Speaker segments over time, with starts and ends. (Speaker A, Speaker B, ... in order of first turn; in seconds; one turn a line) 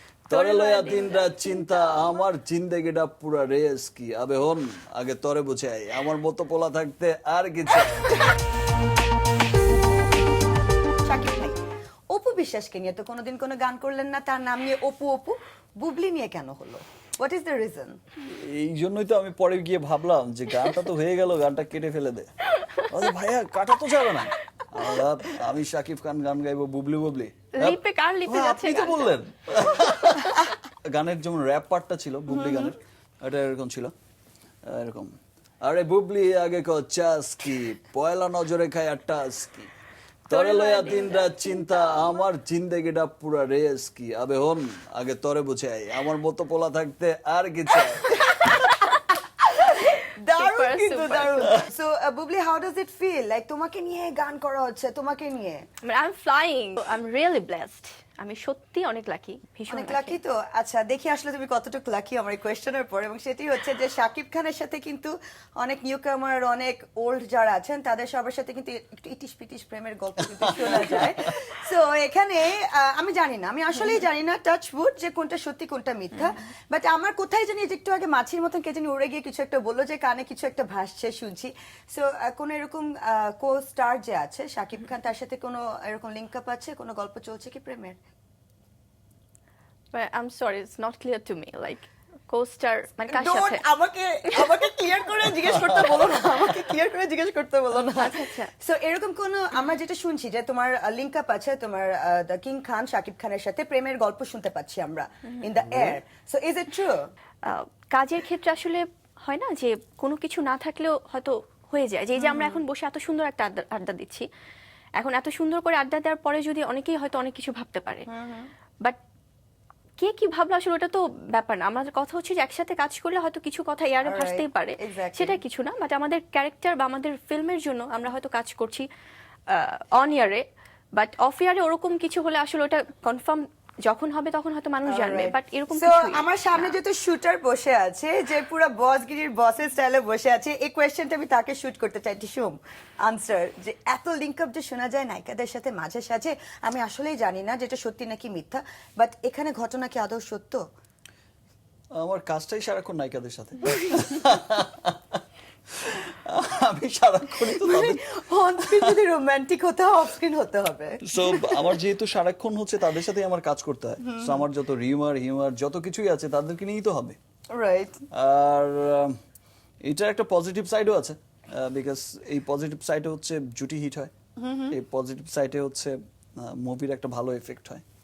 Speaker A: 0.3-8.3
Speaker B: 0.3-2.2
Speaker C: 10.3-11.6
Speaker C: 12.1-18.0
Speaker A: 18.4-22.3
Speaker A: 22.9-33.9
Speaker B: 27.6-29.2
Speaker C: 32.3-32.7
Speaker A: 34.7-39.7
Speaker A: 40.3-48.5
Speaker B: 40.3-42.0
Speaker C: 49.5-55.6
Speaker B: 50.4-51.5
Speaker B: 55.8-60.2
Speaker C: 59.7-88.0
Speaker A: 70.5-71.3
Speaker B: 89.9-93.6
Speaker C: 93.1-107.0
Speaker A: 95.5-95.9
Speaker B: 97.9-98.5
Speaker A: 105.7-106.0
Speaker B: 107.4-114.2
Speaker C: 112.2-112.6
Speaker B: 115.0-118.1
Speaker C: 118.1-118.5
Speaker B: 120.0-128.9
Speaker C: 124.0-125.4
Speaker B: 129.5-130.4
Speaker B: 131.0-136.8
Speaker C: 134.8-150.6
Speaker A: 152.0-155.2
Speaker A: 155.8-158.0
Speaker C: 157.4-161.8
Speaker A: 158.6-159.0
Speaker A: 161.1-167.2
Speaker C: 164.0-164.4
Speaker C: 167.5-168.0
Speaker A: 168.1-169.2
Speaker A: 169.8-174.1
Speaker C: 174.4-174.8
Speaker A: 174.7-177.8